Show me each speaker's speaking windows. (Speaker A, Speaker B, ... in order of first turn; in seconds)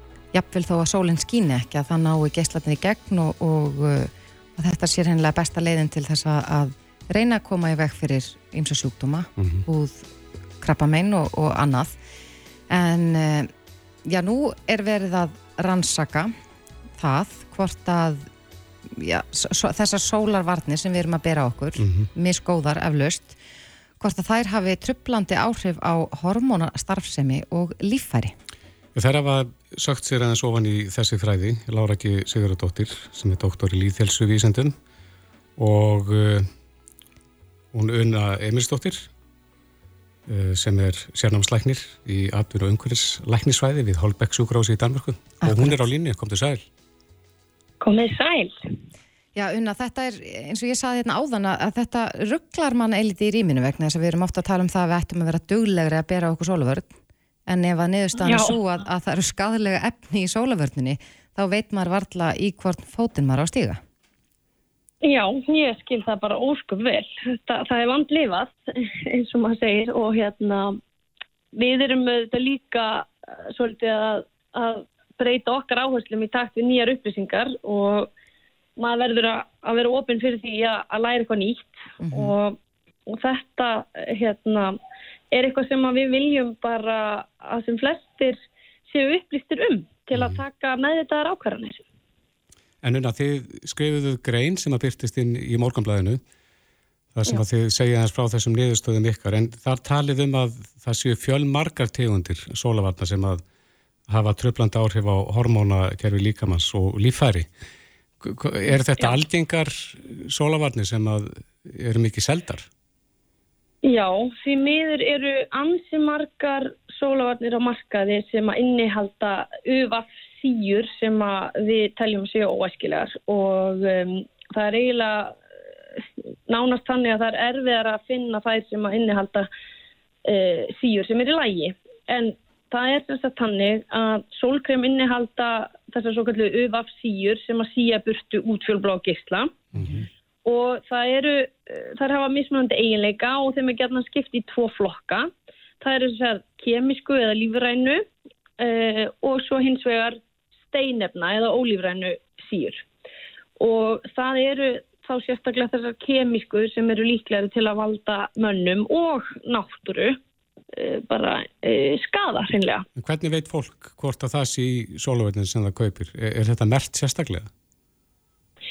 Speaker A: 0.3-10.1, 10.6-11.9, 12.7-13.5, 14.0-16.3, 17.0-18.3, 18.9-23.4, 24.0-28.3, 45.4-45.9, 49.3-56.9, 57.5-63.8, 82.0-82.3
Speaker B: 9.4-9.6, 21.8-22.1, 28.9-34.8, 35.6-36.5, 37.7-39.1, 40.3-46.6, 90.1-90.4, 92.8-96.2, 97.1-103.4, 104.1-107.5, 108.2-112.7, 139.7-140.1, 163.0-167.5
Speaker C: 47.8-48.5, 58.2-58.6, 65.0-70.8, 71.5-78.1, 78.8-84.7, 85.3-91.8, 113.8-125.3, 126.5-129.5, 130.2-139.5, 140.4-145.3, 145.8-148.0, 148.6-150.2, 150.7-152.8, 153.6-160.2, 160.7-162.8